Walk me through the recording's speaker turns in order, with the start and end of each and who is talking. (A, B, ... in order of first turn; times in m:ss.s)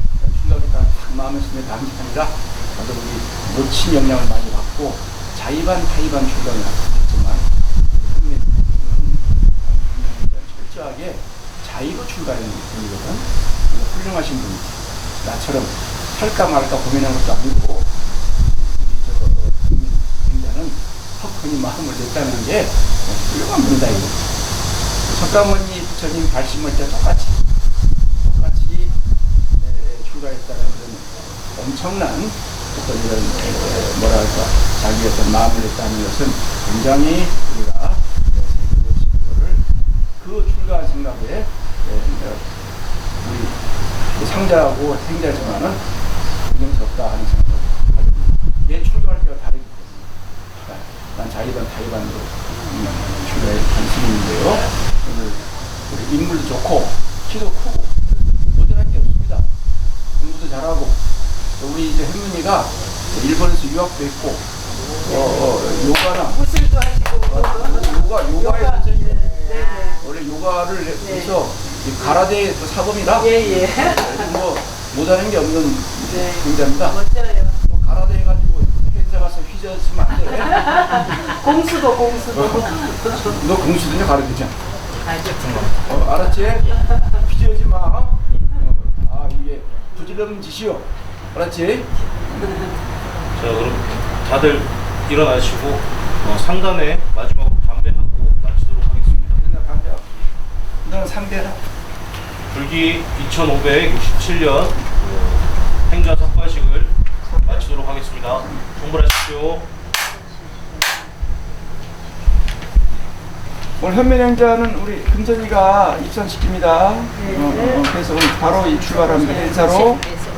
0:00.2-0:17.9 A
0:18.5-0:24.2 A
0:25.0-0:27.4 A
0:28.2-0:28.9 A
0:29.6-0:39.6 A
0:40.2-0:42.4 A
0:43.2-0:43.6 A
0:44.1-0:45.8 A
0:46.5-0:59.5 A
1:00.2-1:01.0 A
1:01.6-1:04.5 A
1:05.0-1:10.0 B
1:05.0-1:06.4 A
1:07.3-1:17.0 A
1:11.0-1:11.3 B
1:13.2-1:14.2 B
1:16.1-1:17.5 B
1:17.6-1:21.2 A
1:20.6-1:23.2 B
1:22.4-1:24.6 A
1:25.8-1:32.6 A
1:33.3-1:39.4 C
1:39.1-1:40.3 A
1:40.8-1:41.6 A
1:42.5-1:46.9 C
1:47.2-1:47.8 A
1:47.4-1:49.7 C
1:53.8-2:00.2 A
1:57.2-1:57.8 B